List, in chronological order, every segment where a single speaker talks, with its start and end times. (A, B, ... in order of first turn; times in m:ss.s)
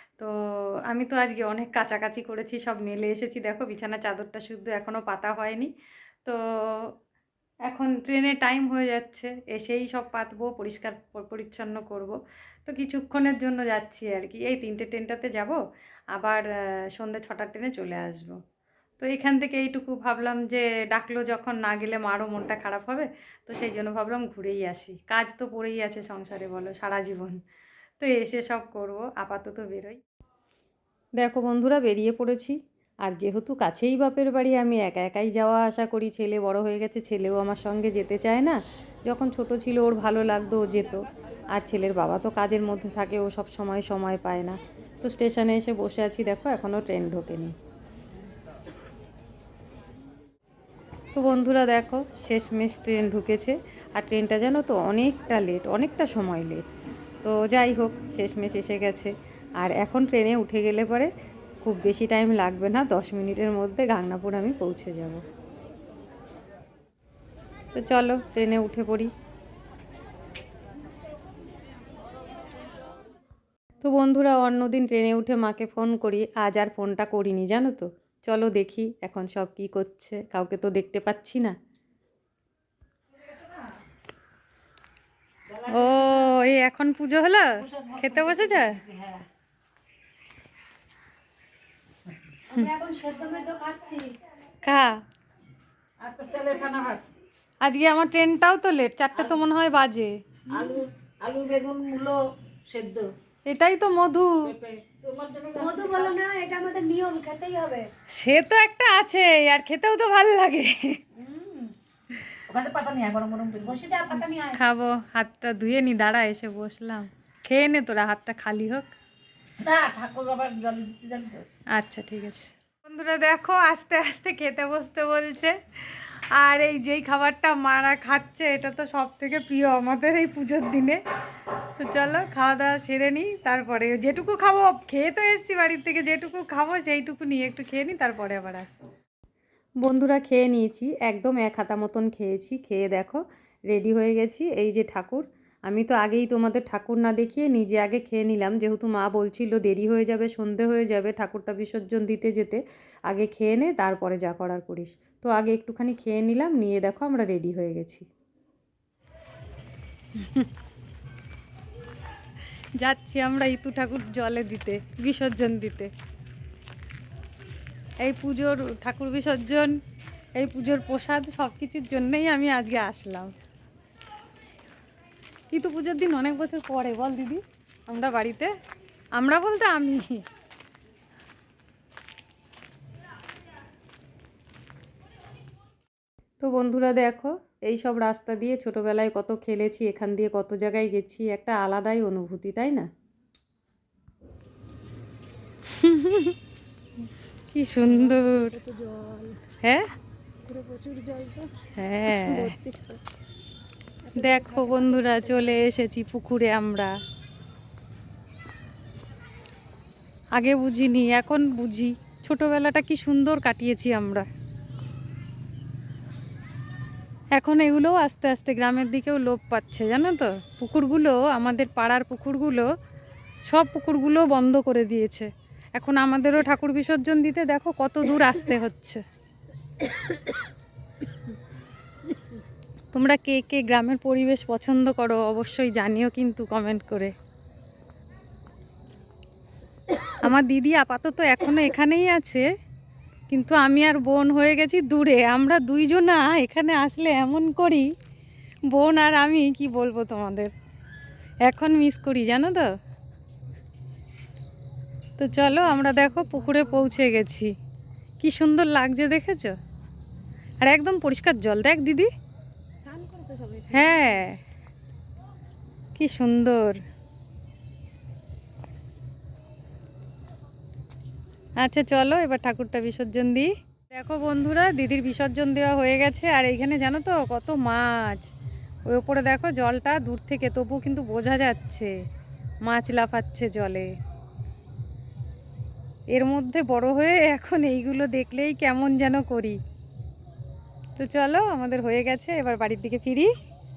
0:00.2-0:05.7 A
0:06.2-0:06.9 A
0:07.7-0:15.6 A
0:16.1-0:18.4 A
0:19.0-0:27.4 A
0:28.0-0:30.0 A
0:31.2-0:47.5 A
0:51.1-0:56.6 A
0:57.2-1:01.1 A
1:01.6-1:05.2 A
1:07.7-1:09.1 A
1:13.8-1:21.5 A
1:25.5-1:26.3 B
1:25.6-1:28.8 A
1:27.6-1:29.2 B
1:32.5-1:34.2 C
1:34.6-1:35.0 A
1:36.0-1:37.0 B
1:37.6-1:40.1 A
1:40.5-1:43.1 B
1:43.4-1:44.5 A
1:44.4-1:46.2 B
1:45.5-1:47.9 C
1:48.1-1:51.0 A
1:51.2-1:51.7 C
1:52.5-1:54.2 B
1:53.6-1:54.6 C
1:54.5-1:58.9 A
1:59.6-2:01.4 B
2:01.7-2:11.0 A
2:11.8-2:18.8 A
2:19.8-2:38.1 A
2:40.2-2:40.5 A
2:42.8-2:45.9 A
2:48.0-2:49.8 A
2:50.3-2:53.3 A
2:55.5-2:58.5 A
2:59.2-3:00.2 A
3:06.4-3:12.9 A
3:15.7-3:16.4 A
3:17.5-3:18.5 A
3:17.8-3:19.4 C
3:20.4-3:21.5 C
3:21.8-3:22.5 A
3:22.1-3:23.0 C
3:24.0-3:25.6 C
3:24.2-3:26.9 A
3:30.4-3:34.2 A
3:37.4-3:42.7 A
3:43.5-3:49.0 A
3:52.9-3:57.1 A
4:00.2-4:02.4 A
4:03.3-4:07.9 A
4:08.7-4:10.5 A
4:11.4-4:12.7 A
4:15.2-4:17.5 A
4:15.8-4:16.6 C
4:18.2-4:19.5 A
4:20.6-4:22.1 A
4:22.8-4:24.1 C
4:23.7-4:24.4 A
4:26.0-4:26.8 A
4:31.6-4:38.3 A
4:38.9-4:41.9 A
4:42.7-4:43.9 A
4:46.1-4:49.6 A
4:51.0-4:53.3 A